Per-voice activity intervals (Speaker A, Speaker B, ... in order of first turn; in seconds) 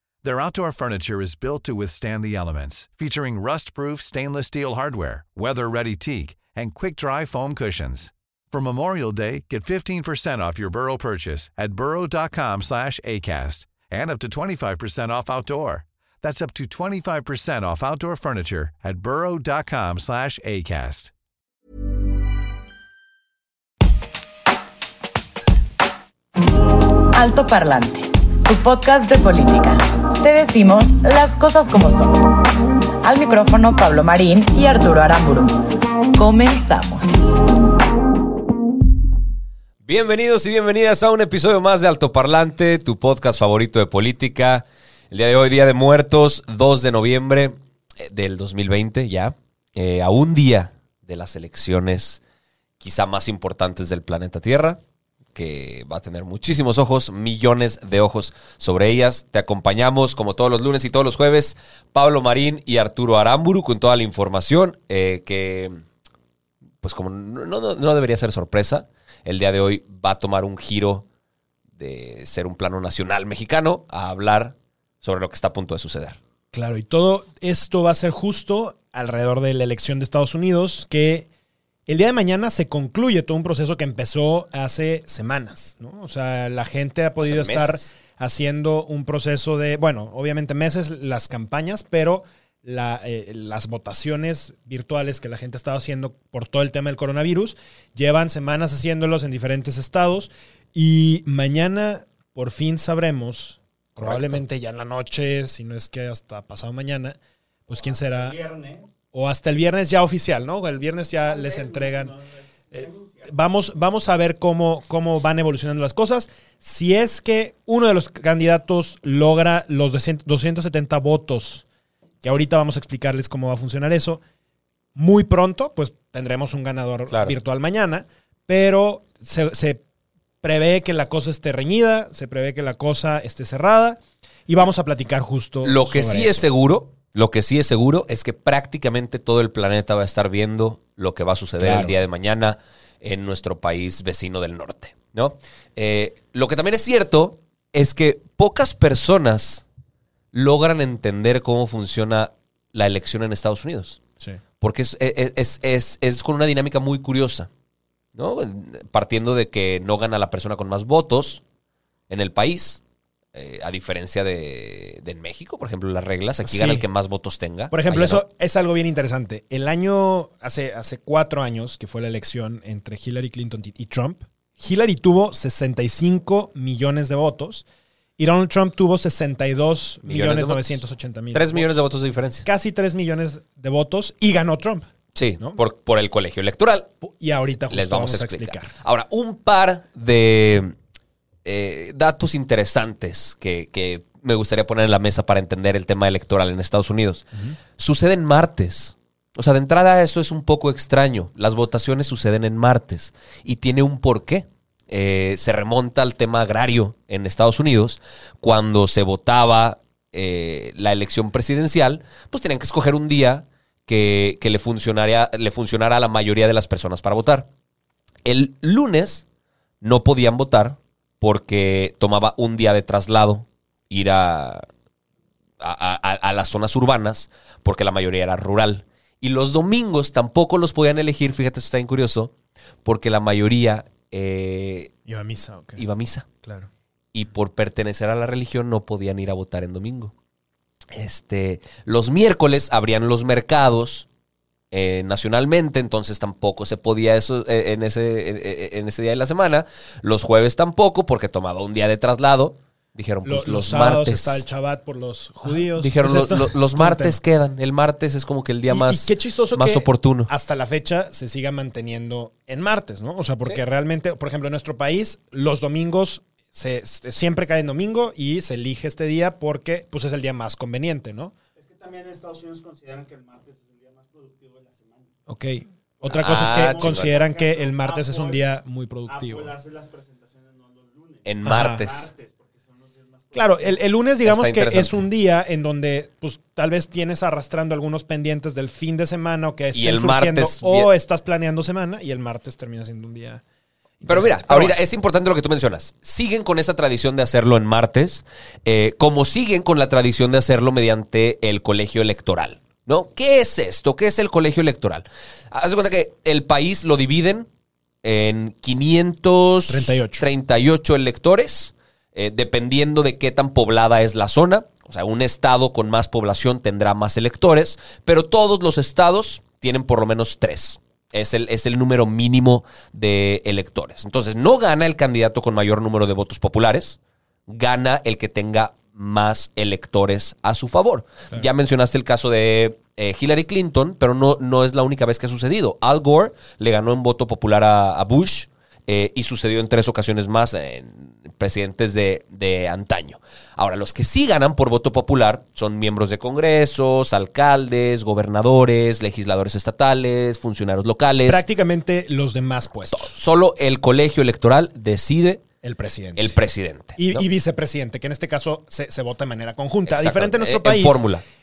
Speaker A: 0.2-21.1
Speaker B: 27.1-32.3, 33.0-35.6, 36.1-37.4
Speaker C: 39.8-52.2, 52.8-54.8, 55.3-65.8, 66.8-71.0, 71.8-76.2, 87.2-87.9, 104.0-104.4, 127.1-127.3, 135.6-149.6, 150.3-154.0, 154.6-157.5, 158.1-161.4, 162.1-162.8, 163.3-168.2, 180.0-180.8, 181.3-182.4, 185.1-186.9, 187.7-190.7, 191.4-217.5, 218.2-219.2, 219.8-224.7, 225.6-232.3, 232.8-234.9, 235.8-236.3, 237.1-240.1, 240.9-244.1, 244.7-254.4, 255.4-260.3, 276.1-277.2, 281.2-282.1, 284.2-285.0, 289.7-290.9, 294.1-307.5, 308.0-351.4, 352.9-355.4, 356.1-357.2, 359.9-361.2
Speaker D: 76.5-81.3, 81.9-108.4, 109.1-112.2, 112.7-121.6, 122.2-124.2, 125.0-129.8, 130.4-136.5, 141.6-141.9, 166.4-166.8, 167.7-177.6, 178.2-181.7, 182.4-184.8, 187.0-188.7, 235.1-235.8, 236.4-236.7, 253.2-257.2, 258.7-271.3, 275.3-279.5, 281.4-281.9, 283.3-293.4, 294.0-294.8, 309.7-310.2, 351.2-353.2, 355.6-356.4, 357.0-361.0
Speaker E: 108.0-108.8, 111.2-113.2, 271.6-275.1, 276.0-278.4, 279.1-283.8